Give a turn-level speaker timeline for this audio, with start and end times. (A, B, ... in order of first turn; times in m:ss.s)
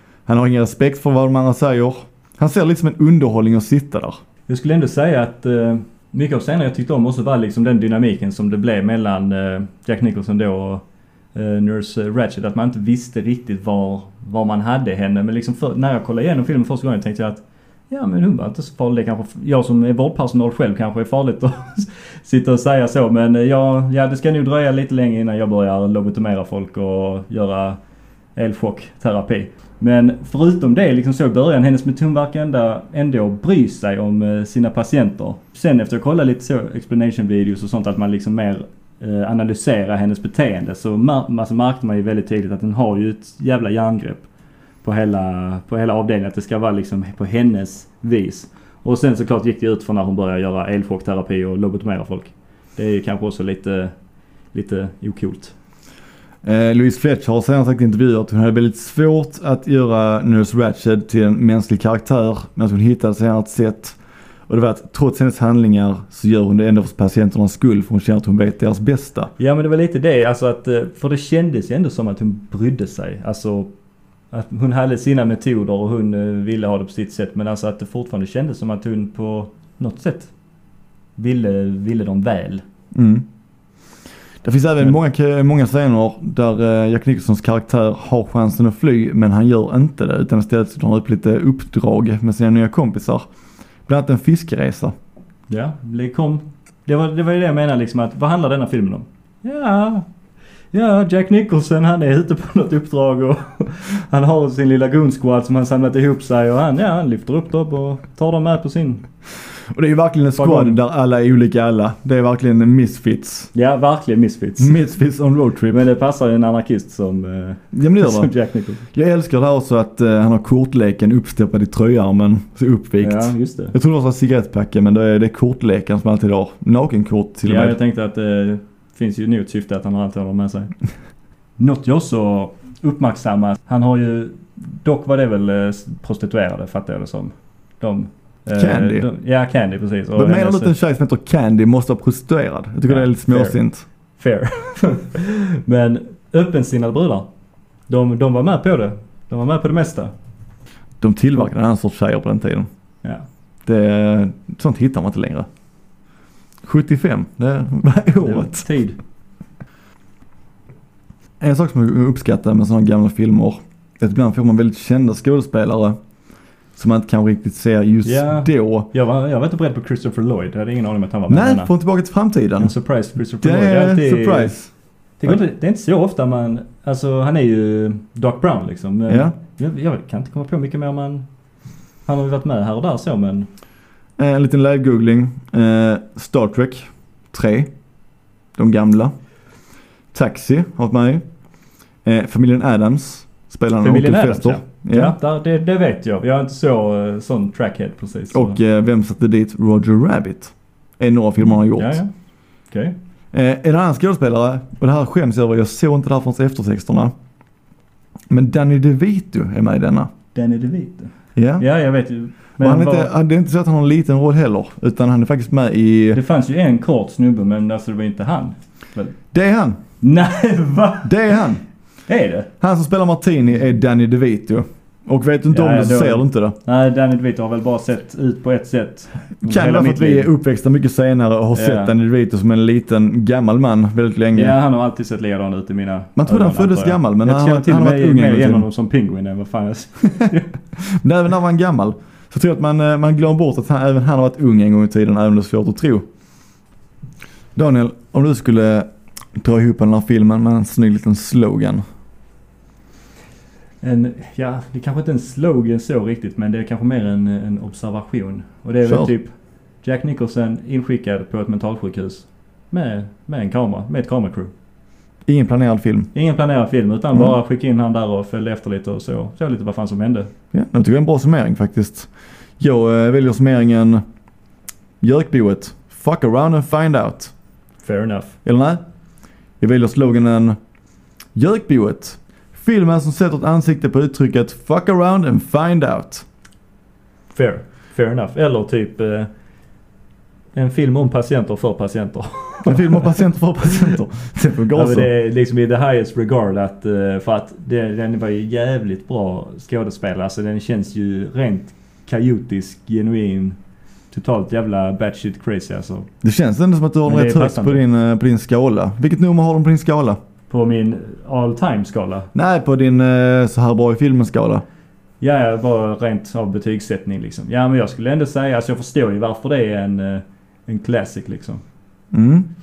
0:00.3-0:04.2 A
0:04.5-0:10.8 B
0:11.4-0:27.8 B
0:28.4-0:44.3 B
0:44.8-0:53.9 B
0:54.5-0:55.5 B
0:56.4-1:04.0 A
1:04.5-1:09.3 A
1:09.4-1:13.7 B
1:14.3-1:20.3 B
1:21.2-1:22.6 B
1:22.9-1:23.2 A
1:24.4-1:33.2 A
1:33.9-1:34.9 A
1:35.5-1:40.1 B
1:40.7-1:49.0 B
1:49.7-1:53.5 A
1:50.4-1:50.8 B
1:53.5-1:54.8 B
1:54.6-1:55.8 A
1:55.7-1:58.8 B
1:57.7-1:58.3 A
1:58.9-2:07.8 A
2:03.0-2:03.7 B
2:07.4-2:10.7 B
2:11.6-2:20.7 B
2:18.6-2:19.1 A
2:20.2-2:23.8 A
2:22.9-2:23.6 B
2:24.2-2:27.3 B
2:27.9-2:30.1 B
2:31.0-2:32.7 A
2:33.6-2:35.5 A
2:36.6-2:38.7 A
2:38.2-2:39.0 B
2:41.4-2:46.0 A
2:46.8-2:48.9 A
2:48.0-2:51.7 B
2:51.3-2:52.7 A
2:52.6-2:54.5 B
2:53.4-2:54.7 A
2:55.2-3:01.2 B
2:59.1-2:59.3 A
3:02.1-3:03.5 B
3:04.2-3:07.7 A
3:08.6-3:09.1 A
3:10.1-3:11.2 A
3:12.0-3:15.2 A
3:13.8-3:18.6 B
3:18.3-3:22.0 A
3:21.7-3:22.1 B
3:22.7-3:23.0 B
3:23.3-3:27.1 A
3:28.3-3:30.1 A
3:30.4-3:33.1 B
3:31.4-3:31.6 A
3:32.6-3:36.2 A
3:36.1-3:39.1 B
3:39.3-3:39.8 A
3:40.0-3:41.4 B
3:41.0-3:41.6 A
3:42.1-3:42.5 B
3:42.6-3:46.6 A
3:45.5-3:50.3 B
3:49.4-3:54.6 A
3:51.5-3:51.9 B
3:54.3-4:00.5 B
3:56.2-3:58.6 A
4:00.8-4:06.0 A
4:07.6-4:11.8 A
4:13.8-4:19.3 B
4:18.9-4:19.1 A
4:19.8-4:24.5 B
4:25.3-4:26.1 A
4:26.1-4:30.3 B
4:30.5-4:34.0 A
4:35.0-4:37.3 A
4:37.8-4:38.4 B
4:38.4-4:38.8 A
4:39.6-4:40.6 A
4:41.4-4:46.2 A
4:47.3-4:49.3 B
4:50.6-4:53.1 B
4:52.6-4:55.1 A
4:54.7-5:03.6 B
5:04.1-5:06.1 B
5:06.2-5:10.2 A
5:07.1-5:07.8 B
5:10.5-5:12.3 B
5:12.3-5:14.6 A
5:15.2-5:21.6 B
5:22.1-5:22.5 A